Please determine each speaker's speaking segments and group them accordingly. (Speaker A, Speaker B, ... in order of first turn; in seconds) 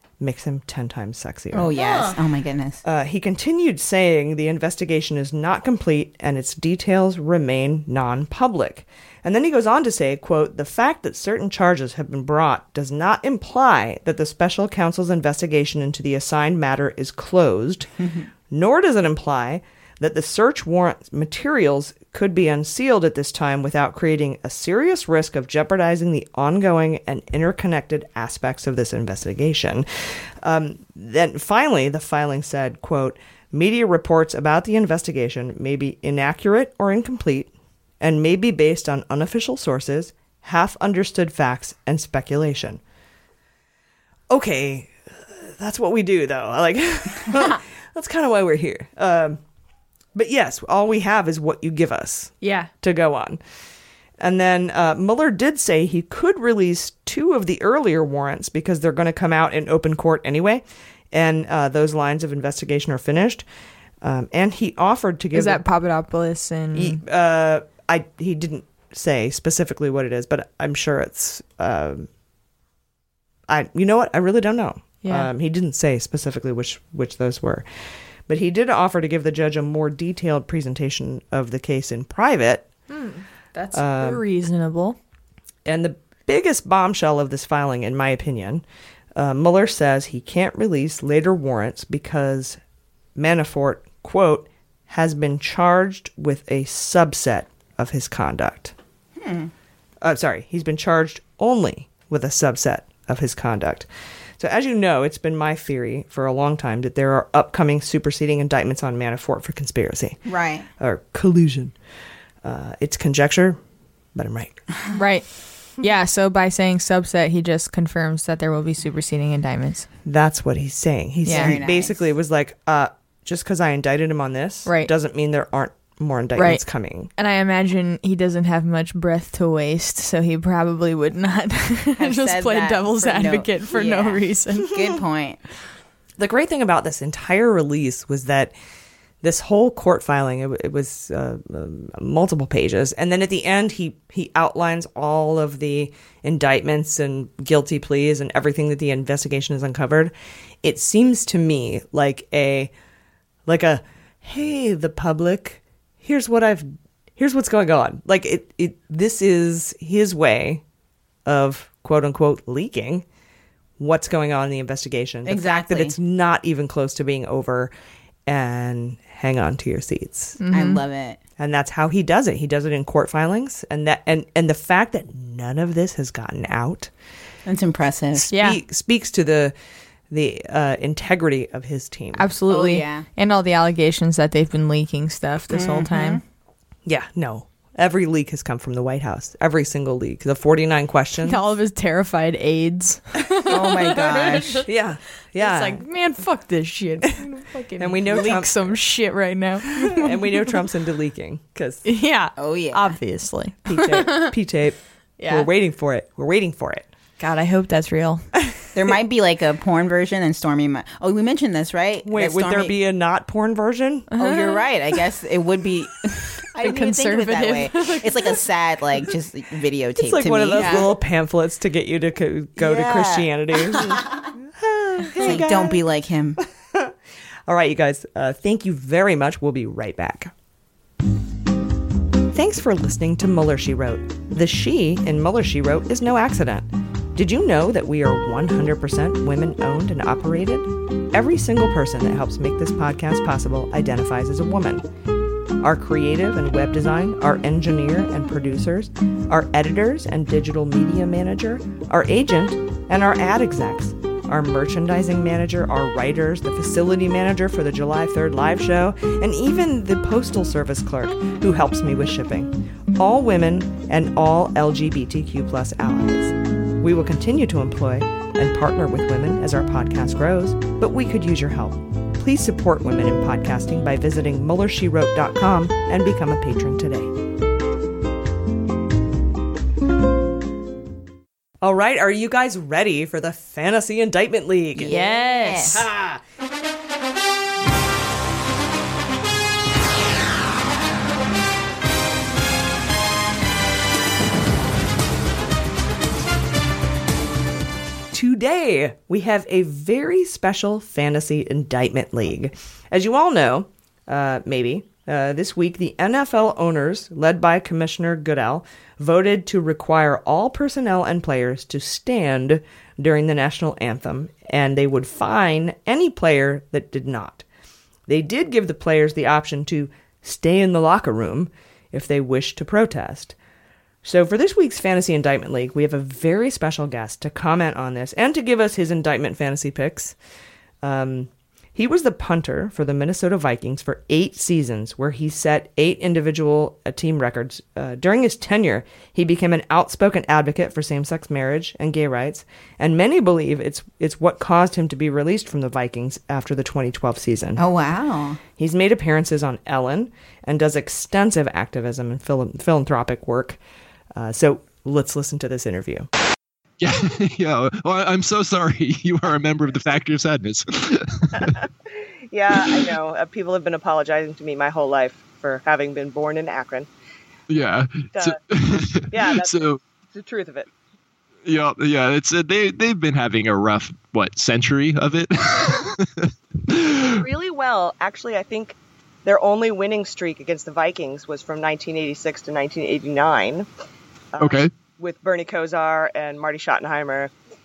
Speaker A: 0.2-1.8, 2.8-17.9, 18.5-29.8, 30.4-42.8, 44.3-49.4, 50.1-53.4, 54.2-63.4, 64.0-65.6, 66.7-72.1, 73.5-77.6, 78.3-82.7, 83.7-84.2, 85.7-88.6, 89.2-92.6, 93.2-98.7, 100.0-103.9, 104.4-110.2, 110.8-111.7, 112.4-113.6, 114.1-114.6, 120.0-127.1, 136.2-138.5, 139.2-152.7, 153.5-160.6, 161.2-163.0, 163.8-167.7, 168.3-170.4, 171.4-176.9, 178.3-179.5, 180.1-182.3, 186.8-191.4, 194.7-195.8, 197.8-198.7, 199.8-201.8, 203.7-204.8, 205.3-206.9, 212.0-214.1, 220.0-224.0, 224.6-225.8, 227.5-230.3, 232.3-244.8, 245.6-277.1, 281.6-284.9, 285.7-286.2, 298.1-317.4, 318.1-323.3, 324.0-330.1, 330.8-347.6, 348.6-353.6, 354.1-356.1
Speaker B: 1.5-2.8, 99.2-99.5, 110.2-110.7, 121.2-122.1, 132.0-135.4, 165.2-165.9, 170.5-171.2, 177.4-178.3, 182.5-183.0, 185.5-186.2, 193.5-194.6, 202.4-203.0, 208.7-212.8, 214.2-220.8, 222.6-224.2, 225.2-226.4, 284.8-285.8, 347.6-348.4
Speaker C: 52.4-52.7, 65.3-67.0, 75.0-75.3, 82.9-85.0, 114.9-115.3, 115.8-119.9, 121.2-121.6, 124.7-124.9, 126.3-126.6, 127.2-134.7, 170.4-170.8, 178.3-178.6, 182.2-186.2, 191.2-194.7, 195.3-200.6, 201.8-204.3, 205.2-205.5, 207.2-208.2, 214.1-214.6, 216.6-218.4, 220.6-221.0, 284.8-285.9
Speaker D: 356.8-361.5, 362.6-362.9, 367.5-369.8, 371.4-377.2, 384.4-384.7
Speaker E: 361.4-361.6, 362.3-366.9, 368.1-368.4, 369.1-370.7, 377.2-383.7, 384.3-387.3